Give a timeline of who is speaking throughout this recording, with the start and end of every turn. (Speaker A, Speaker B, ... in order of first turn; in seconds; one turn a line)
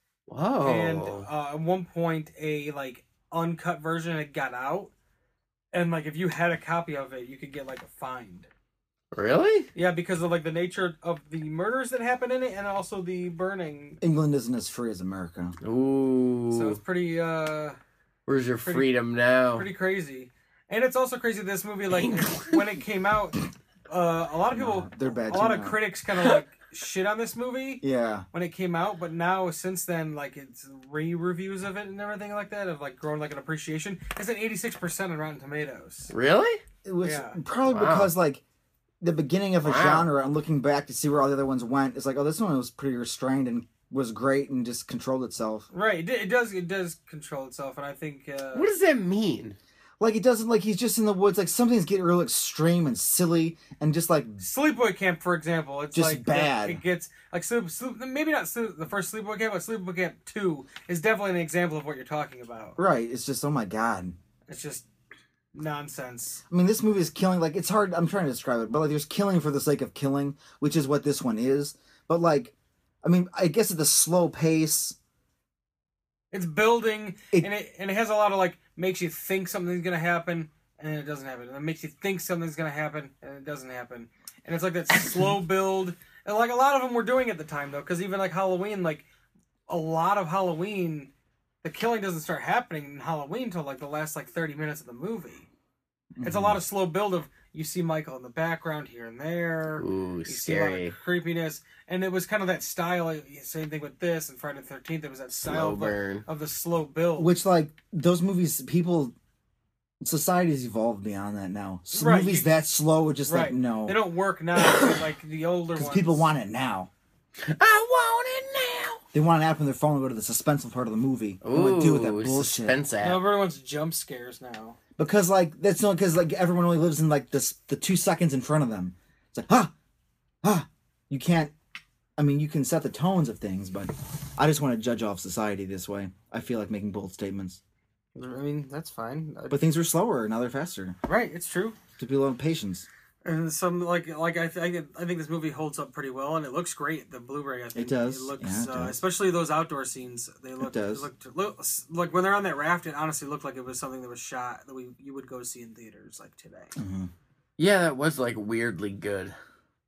Speaker A: 0.3-1.3
Speaker B: 0.6-4.9
Speaker B: 5.7-8.5
Speaker A: 9.1-9.7
Speaker B: 9.7-14.0
Speaker C: 14.0-15.6
Speaker A: 15.6-16.8
Speaker B: 16.5-17.8
Speaker A: 18.3-19.7
Speaker B: 19.5-36.1
Speaker A: 21.9-22.8
Speaker C: 24.5-25.8
Speaker C: 27.8-28.2
Speaker A: 36.1-36.6
Speaker C: 36.8-38.4
Speaker B: 37.0-37.4
Speaker A: 37.7-38.1
Speaker C: 39.0-45.7
Speaker A: 39.6-40.1
Speaker B: 45.7-48.7
Speaker A: 48.5-49.5
Speaker C: 50.0-54.4
Speaker B: 54.4-62.8
Speaker C: 55.9-56.8
Speaker C: 62.8-64.2
Speaker B: 64.5-64.9
Speaker B: 65.5-66.4
Speaker C: 66.5-75.0
Speaker B: 76.3-89.0
Speaker B: 89.7-91.1
Speaker B: 91.6-95.5
Speaker C: 96.1-96.6
Speaker B: 96.2-107.3
Speaker A: 99.8-101.0
Speaker A: 105.4-106.2
Speaker C: 107.2-109.1
Speaker C: 110.0-114.0
Speaker B: 111.9-112.5
Speaker B: 113.3-116.3
Speaker A: 114.6-115.0
Speaker C: 115.8-116.9
Speaker A: 117.4-119.0
Speaker C: 119.1-122.8
Speaker A: 121.4-123.2
Speaker B: 123.0-124.8
Speaker C: 125.0-129.7
Speaker C: 130.4-131.5
Speaker C: 132.2-137.6
Speaker B: 138.1-139.7
Speaker C: 139.5-141.0
Speaker B: 141.0-141.8
Speaker C: 142.0-142.9
Speaker B: 143.2-156.7
Speaker C: 147.7-149.0
Speaker C: 150.6-151.1
Speaker C: 156.8-157.1
Speaker A: 157.6-159.3